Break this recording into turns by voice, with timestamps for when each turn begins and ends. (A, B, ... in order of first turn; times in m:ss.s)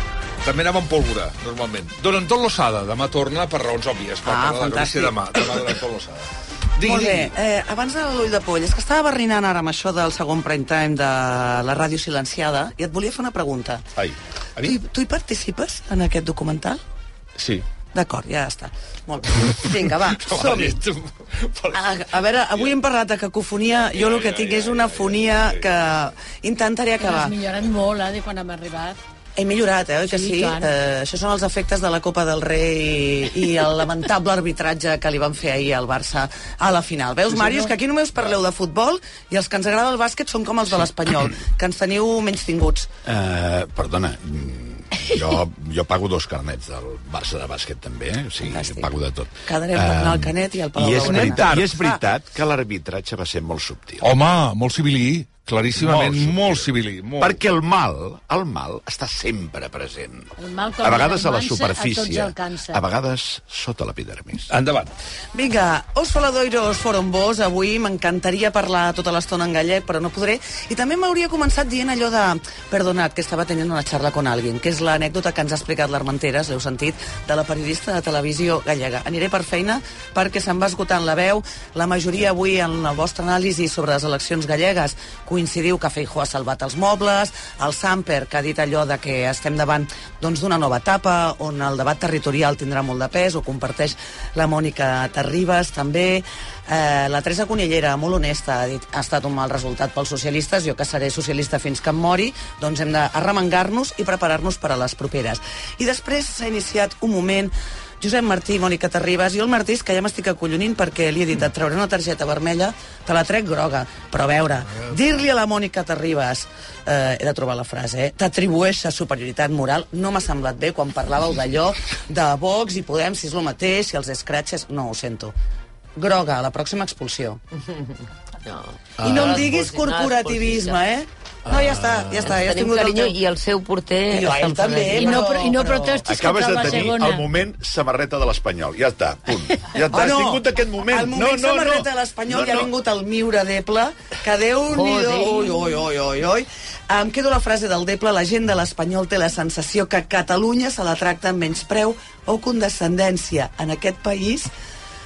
0:00.4-0:07.3 A
0:04.2-0:05.7 B
0:06.8-0:13.9 B
0:14.0-0:14.7 A
0:14.6-0:16.8 B
0:17.4-0:17.6 A
0:17.9-0:20.8 B
0:19.5-0:22.7 A
0:21.7-0:27.4 B
0:23.9-0:25.8 A
0:27.0-0:29.0 C
0:29.4-0:42.9 B
0:30.0-0:30.7 C
0:37.3-0:37.6 C
0:43.0-0:54.1 D
0:48.4-0:48.9 B
0:49.4-0:52.0 B
0:51.0-0:51.7 A
0:54.0-0:57.4 A
0:55.8-1:04.5 D
1:00.4-1:02.8 C
1:04.5-1:04.9 A
1:05.3-2:05.3 B
2:06.0-2:07.4 B
2:08.4-2:10.8 E
2:09.0-2:13.2 B
2:12.2-2:15.3 E
2:14.1-2:16.1 B
2:15.0-2:17.2 C
2:16.0-2:22.7 D
2:19.9-2:34.5 B
2:24.7-2:25.7 E